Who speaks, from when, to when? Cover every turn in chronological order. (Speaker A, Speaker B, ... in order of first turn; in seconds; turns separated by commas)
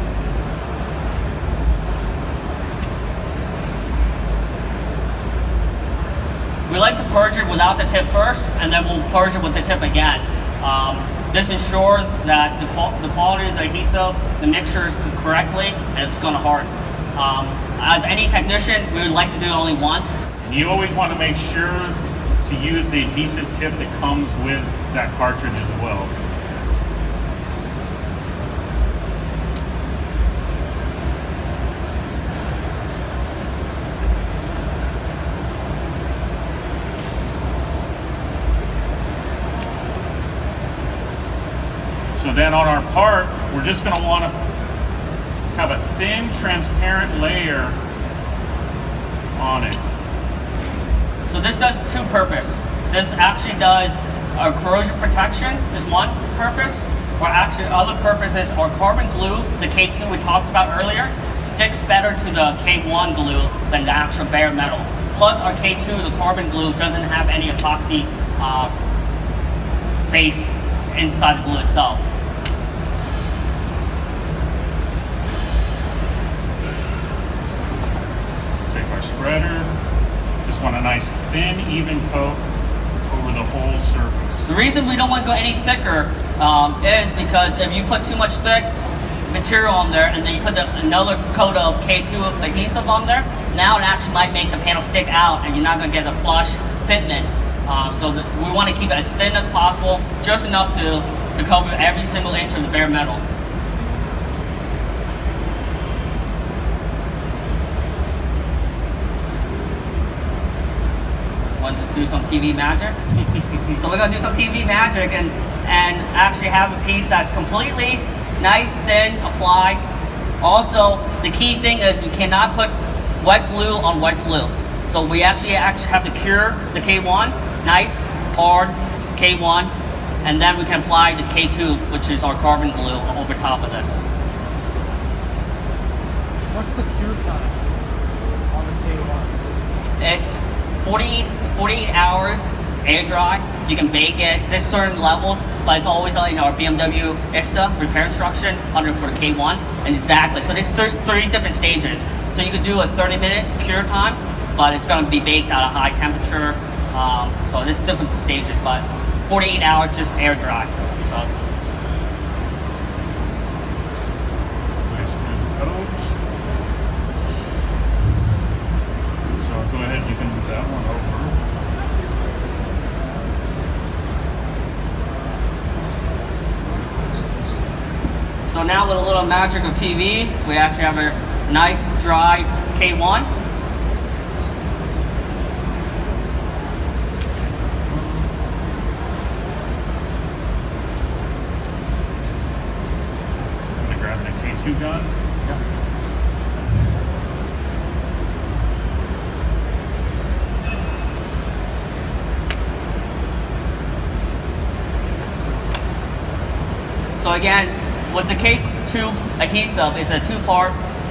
Speaker A: 6.7-20.1, Speaker B: 20.4-26.1, Speaker B: 42.1-44.3, Speaker B: 45.5-47.8, Speaker B: 49.3-49.8, Speaker A: 51.2-68.7, Speaker A: 70.1-72.0, Speaker B: 78.7-79.7, Speaker B: 80.4-82.5, Speaker B: 83.0-84.5, Speaker A: 84.5-88.7, Speaker A: 89.2-103.2, Speaker A: 111.6-113.0, Speaker A: 113.8-119.8, Speaker A: 120.4-129.7, Speaker A: 130.2-134.0, Speaker C: 136.5-137.6, Speaker C: 138.5-139.3, Speaker A: 140.0-161.3, Speaker B: 164.8-166.1, Speaker B: 169.3-171.3, Speaker A: 178.5-183.3, Speaker B: 193.8-195.1, Speaker A: 207.2-210.8